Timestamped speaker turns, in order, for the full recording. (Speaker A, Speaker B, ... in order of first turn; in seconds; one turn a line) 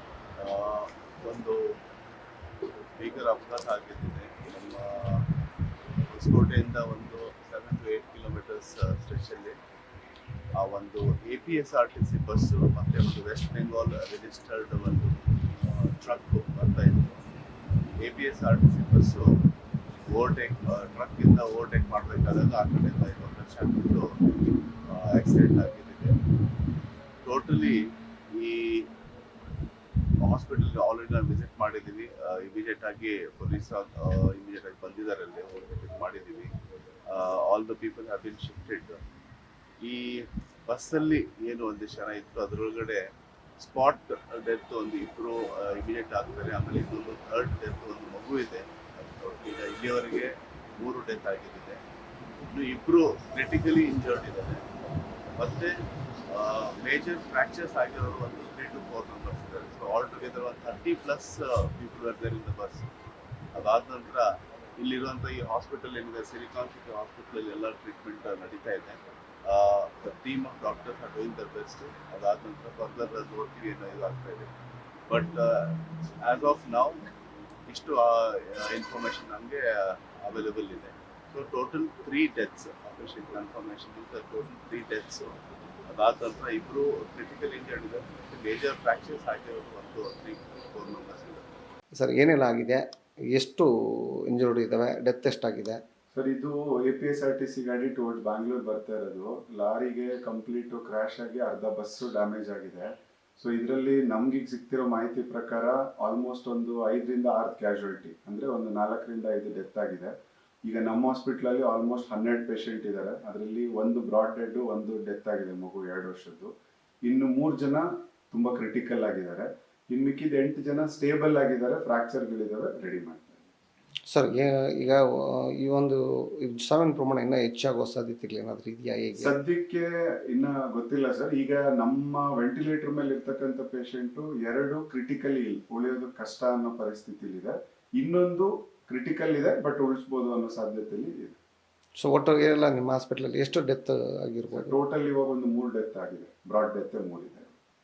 Speaker A: 0.4-1.8
Speaker A: 3.0-5.3
Speaker A: 6.1-9.6
Speaker A: 10.6-17.2
Speaker A: 18.0-19.4
Speaker A: 20.1-24.2
Speaker A: 24.9-26.2
Speaker A: 27.2-28.9
Speaker A: 30.2-36.5
Speaker A: 37.1-39.0
Speaker A: 39.8-51.8
Speaker A: 52.5-54.7
Speaker A: 55.4-62.9
Speaker A: 63.5-74.5
Speaker A: 75.1-77.0
Speaker A: 77.7-91.5
Speaker B: 92.0-93.7
Speaker B: 94.3-95.8
Speaker C: 96.1-110.1
Speaker C: 110.7-116.5
Speaker C: 117.1-123.4
Speaker B: 124.1-129.4
Speaker C: 129.2-141.4
Speaker B: 142.0-144.7
Speaker C: 144.5-147.5